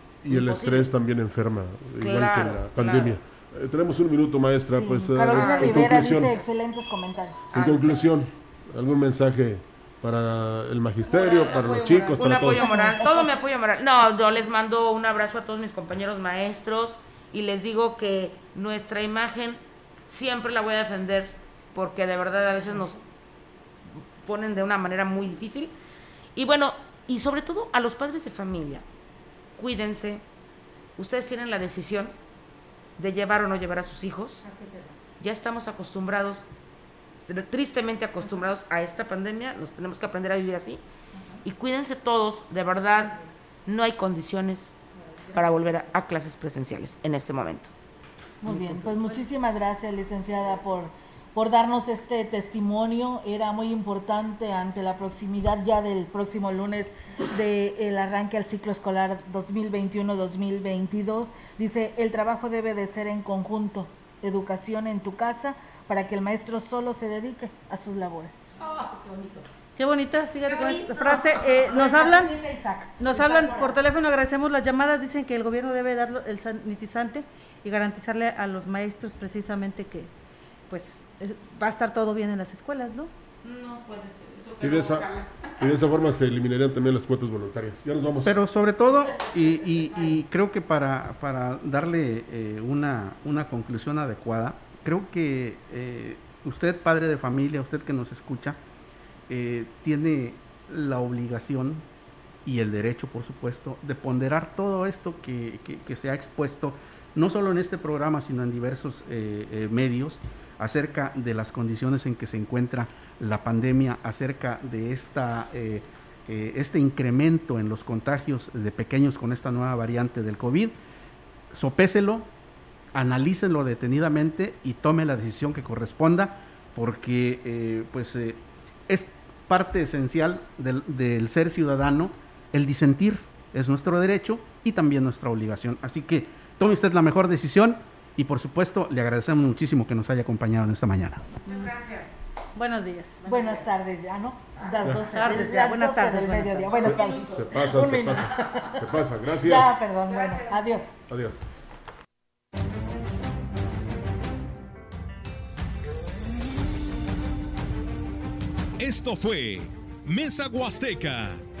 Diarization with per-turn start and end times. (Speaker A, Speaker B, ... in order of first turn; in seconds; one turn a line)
Speaker A: 0.2-6.4
Speaker B: 0.3-0.9
Speaker B: 2.0-3.2
Speaker C: 4.7-7.6
Speaker B: 5.2-6.0
Speaker A: 7.5-12.7
Speaker B: 7.5-8.1
Speaker B: 11.1-23.0
Speaker C: 12.0-13.3
Speaker B: 24.2-25.7
Speaker B: 26.3-28.8
Speaker B: 29.6-30.2
Speaker B: 31.0-32.1
Speaker B: 33.0-34.4
Speaker B: 35.2-36.5
Speaker B: 37.3-40.8
Speaker B: 41.4-44.8
Speaker B: 45.3-47.7
Speaker C: 48.4-68.4
Speaker B: 48.5-49.2
Speaker B: 68.6-69.5
Speaker D: 69.8-72.3
Speaker B: 70.5-71.5
Speaker C: 71.0-73.5
Speaker D: 73.0-80.1
Speaker D: 80.7-83.1
Speaker B: 83.4-85.5
Speaker A: 84.6-85.1
Speaker A: 85.6-88.3
Speaker E: 88.2-98.6
Speaker E: 99.3-101.8
Speaker E: 102.4-120.7
Speaker E: 121.5-122.3
Speaker E: 122.9-141.3
Speaker B: 141.4-142.1
Speaker D: 141.4-141.7
Speaker D: 142.6-143.2
Speaker B: 143.2-143.7
Speaker C: 143.2-151.0
Speaker B: 144.6-145.6
Speaker D: 145.0-146.9
Speaker A: 146.7-149.8
Speaker B: 146.8-147.4
Speaker B: 150.0-150.6
Speaker A: 151.1-151.5
Speaker F: 158.8-161.4